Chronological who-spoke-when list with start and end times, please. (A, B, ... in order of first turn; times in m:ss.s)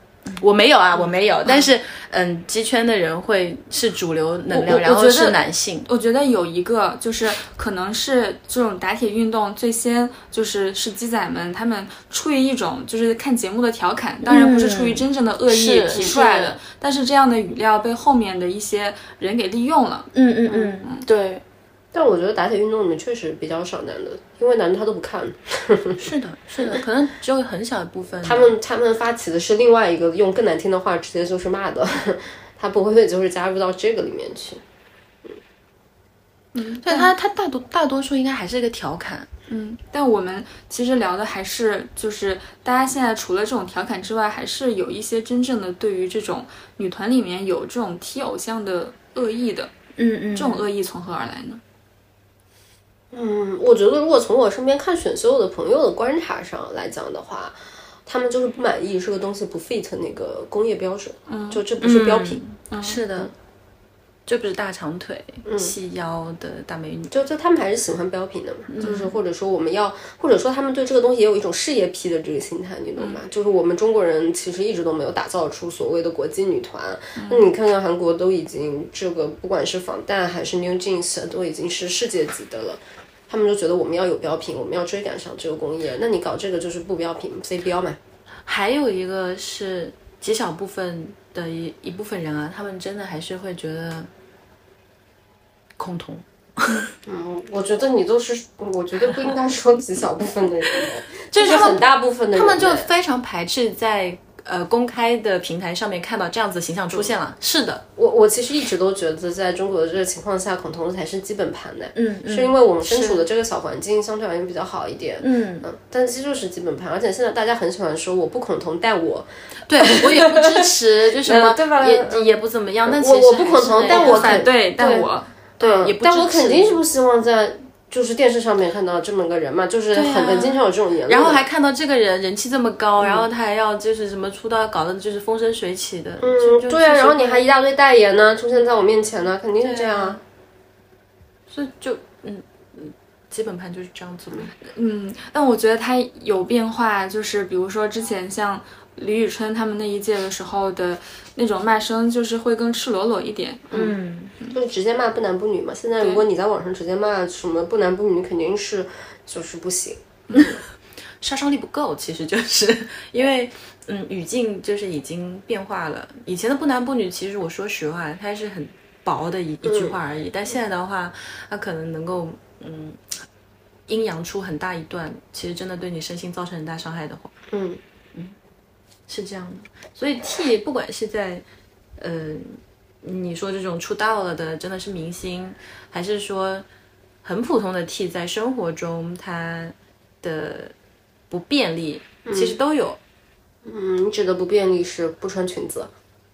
0:00.3-0:05.9 A
0:04.5-0:20.1 B
0:14.2-0:16.6 A
0:20.1-0:21.4 A
0:21.9-0:26.0 C
0:26.0-0:28.5 A
0:28.2-0:34.6 C
0:36.6-0:37.1 B
0:36.8-0:39.3 A
0:39.5-0:49.7 B
0:50.0-0:50.6 A
0:50.4-0:51.6 B
0:53.1-1:02.4 C
1:01.3-1:01.6 B
1:01.8-1:03.3 A
1:02.7-1:03.0 B
1:04.3-1:07.1 A
1:05.5-1:05.7 C
1:07.1-1:28.0 C
1:08.7-1:09.1 A
1:08.8-1:09.1 B
1:17.2-1:17.5 B
1:28.5-1:34.1 A
1:35.8-1:36.9 A
1:37.1-1:42.9 C
1:41.3-1:47.8 A
1:48.0-1:59.3 C
1:52.0-1:53.3 A
1:55.2-1:55.7 A
1:59.7-2:04.4 A
1:59.8-2:05.1 C
2:03.9-2:05.3 B
2:05.6-2:06.8 A
2:05.6-2:11.4 C
2:09.9-2:17.5 A
2:13.0-2:13.3 C
2:16.2-2:20.2 C
2:19.6-2:20.2 A
2:21.5-2:24.5 A
2:24.7-2:33.7 B
2:33.7-2:34.3 A
2:34.5-2:40.6 C
2:41.2-2:53.1 A
2:49.6-2:50.0 C
2:53.9-2:57.3 A
2:57.5-2:57.8 C
2:59.1-3:01.4 A
3:02.0-3:06.6 A
3:07.2-3:10.7 A
3:11.3-3:13.0 A
3:12.3-3:12.6 C
3:13.7-3:15.9 C